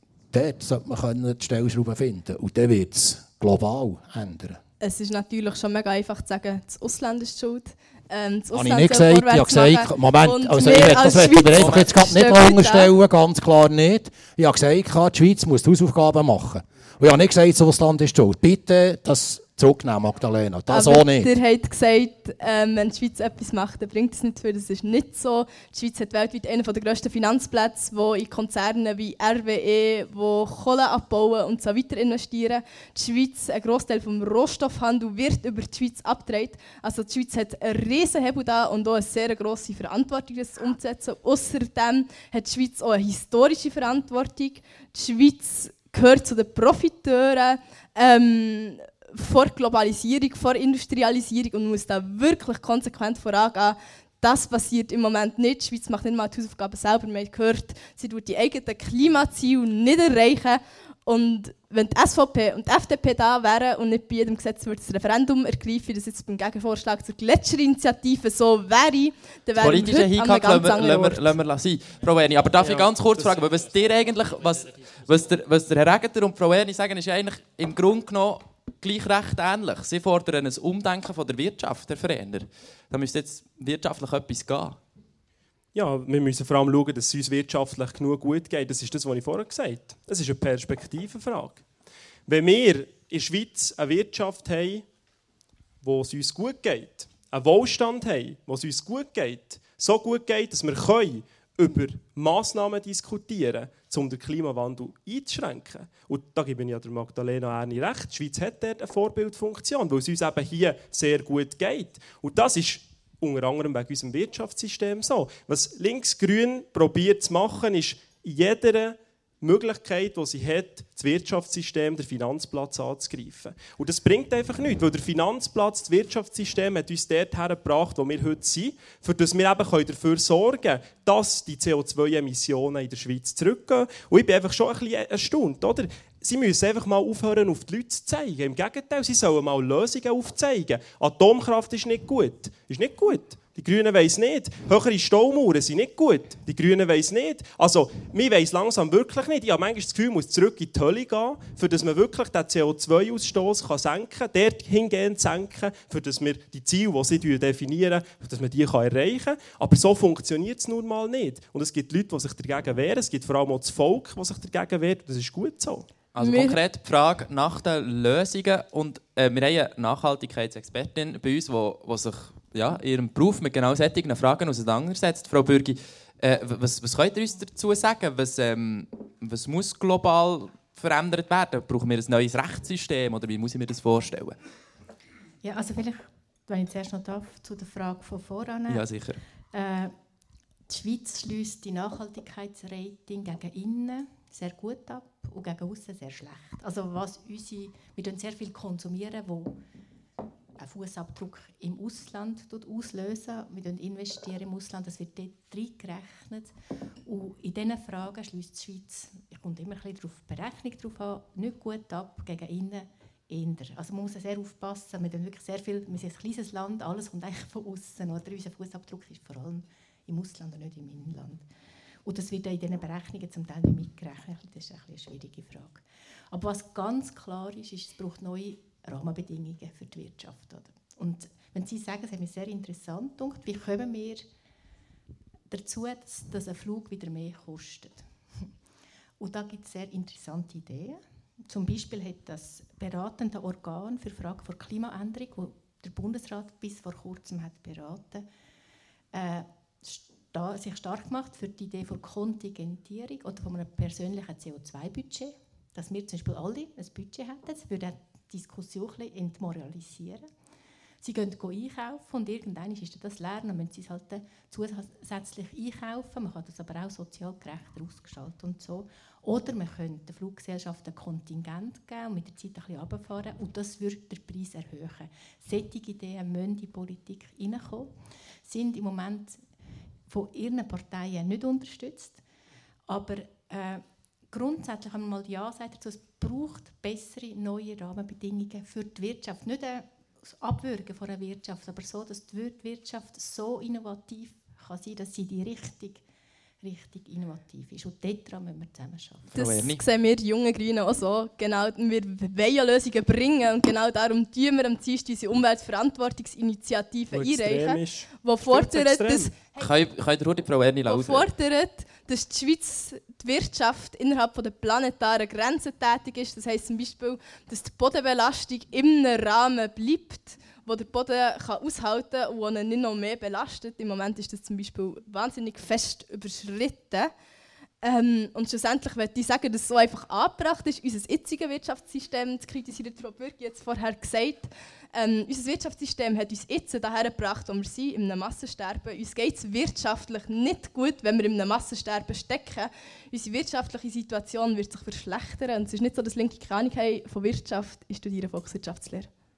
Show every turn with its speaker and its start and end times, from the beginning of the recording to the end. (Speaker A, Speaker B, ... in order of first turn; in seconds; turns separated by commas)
Speaker A: 0.3-4.6, Speaker B: 4.8-12.9, Speaker A: 8.5-21.3, Speaker B: 20.7-71.3, Speaker C: 69.6-84.8, Speaker D: 72.6-73.5, Speaker D: 85.7-91.6, Speaker D: 92.3-94.8, Speaker D: 95.8-165.9, Speaker C: 166.1-184.3, Speaker B: 166.2-166.6, Speaker E: 185.4-188.9, Speaker C: 188.7-189.2, Speaker E: 189.5-189.9, Speaker E: 190.7-199.6, Speaker E: 200.6-206.5, Speaker E: 207.0-221.4, Speaker E: 222.0-234.2, Speaker E: 235.5-238.5, Speaker E: 239.2-248.2, Speaker E: 249.1-260.2, Speaker E: 261.0-279.4, Speaker E: 280.1-282.2, Speaker E: 282.9-296.0, Speaker E: 296.6-299.3, Speaker C: 299.3-299.8, Speaker B: 299.3-309.4, Speaker D: 307.1-309.3, Speaker C: 309.6-311.3, Speaker B: 310.9-327.1, Speaker B: 327.8-349.1